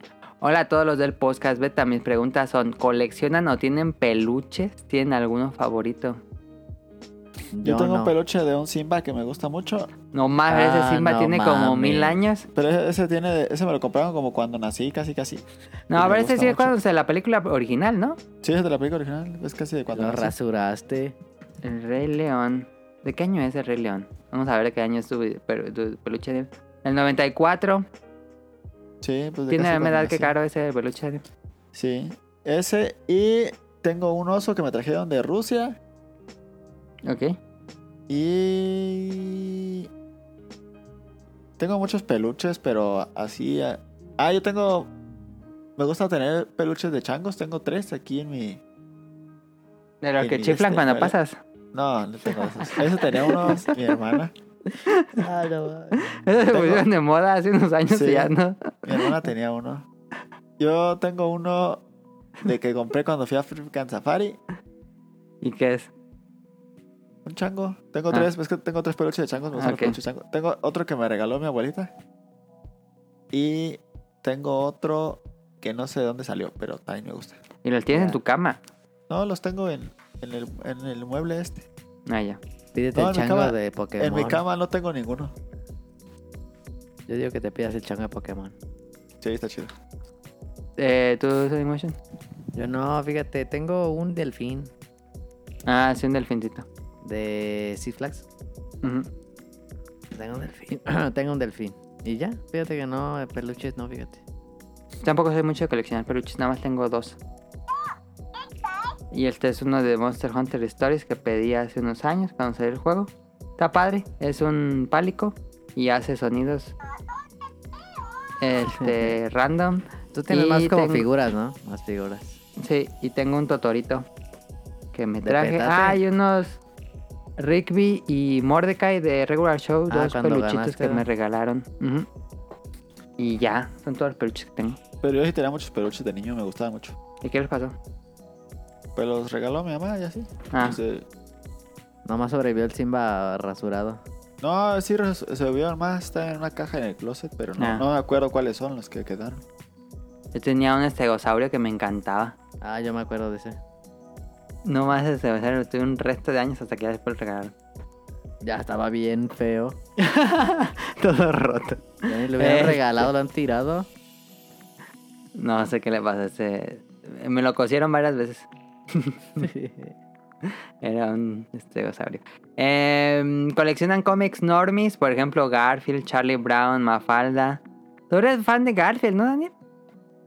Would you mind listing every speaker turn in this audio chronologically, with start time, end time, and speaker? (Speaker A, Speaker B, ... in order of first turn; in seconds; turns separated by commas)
Speaker A: 0.4-6.2, Speaker B: 7.5-8.1, Speaker C: 7.6-9.9, Speaker A: 10.1-12.5, Speaker B: 10.5-12.2, Speaker C: 12.6-16.7, Speaker A: 15.9-18.2, Speaker C: 18.4-20.3, Speaker B: 19.9-21.2, Speaker A: 21.6-27.9, Speaker C: 29.0-30.3, Speaker A: 29.5-31.2, Speaker C: 31.7-35.8, Speaker A: 37.0-37.4, Speaker C: 38.1-39.9, Speaker C: 41.6-44.9, Speaker C: 45.8-48.6, Speaker A: 50.0-51.4, Speaker C: 50.2-51.1, Speaker C: 51.7-54.3, Speaker A: 52.6-53.6, Speaker B: 55.2-56.0, Speaker A: 56.0-59.0, Speaker C: 56.5-56.9, Speaker C: 57.9-58.3, Speaker C: 58.9-59.9, Speaker C: 60.6-61.8, Speaker C: 62.4-64.4, Speaker A: 65.4-65.9, Speaker C: 67.2-71.9, Speaker A: 69.6-70.0, Speaker C: 73.3-77.4, Speaker A: 77.6-78.6, Speaker B: 77.9-78.2, Speaker C: 79.1-81.7, Speaker A: 82.1-82.4, Speaker B: 82.8-84.4, Speaker C: 83.0-85.3, Speaker B: 87.1-88.5, Speaker C: 89.2-89.7, Speaker A: 90.8-92.0, Speaker B: 92.5-94.7, Speaker A: 95.7-96.7, Speaker B: 97.0-98.3, Speaker A: 98.8-99.1, Speaker B: 100.1-104.2, Speaker A: 105.0-107.2, Speaker A: 109.1-116.8, Speaker A: 118.4-121.1, Speaker B: 118.7-119.2, Speaker B: 120.1-122.4, Speaker A: 122.6-124.1, Speaker A: 124.9-126.6, Speaker B: 125.2-126.0, Speaker A: 127.4-132.1, Speaker B: 129.9-131.1, Speaker A: 133.2-134.8, Speaker C: 135.0-137.0, Speaker A: 137.2-137.8, Speaker C: 139.0-141.1, Speaker A: 140.5-140.8, Speaker B: 142.1-144.0, Speaker C: 144.4-149.4, Speaker A: 147.6-147.8, Speaker A: 150.3-152.3, Speaker B: 152.6-153.6, Speaker A: 154.7-157.5, Speaker B: 158.4-159.8, Speaker A: 160.0-163.1, Speaker B: 162.1-163.9, Speaker A: 165.3-169.5, Speaker B: 169.4-169.9, Speaker A: 170.4-179.5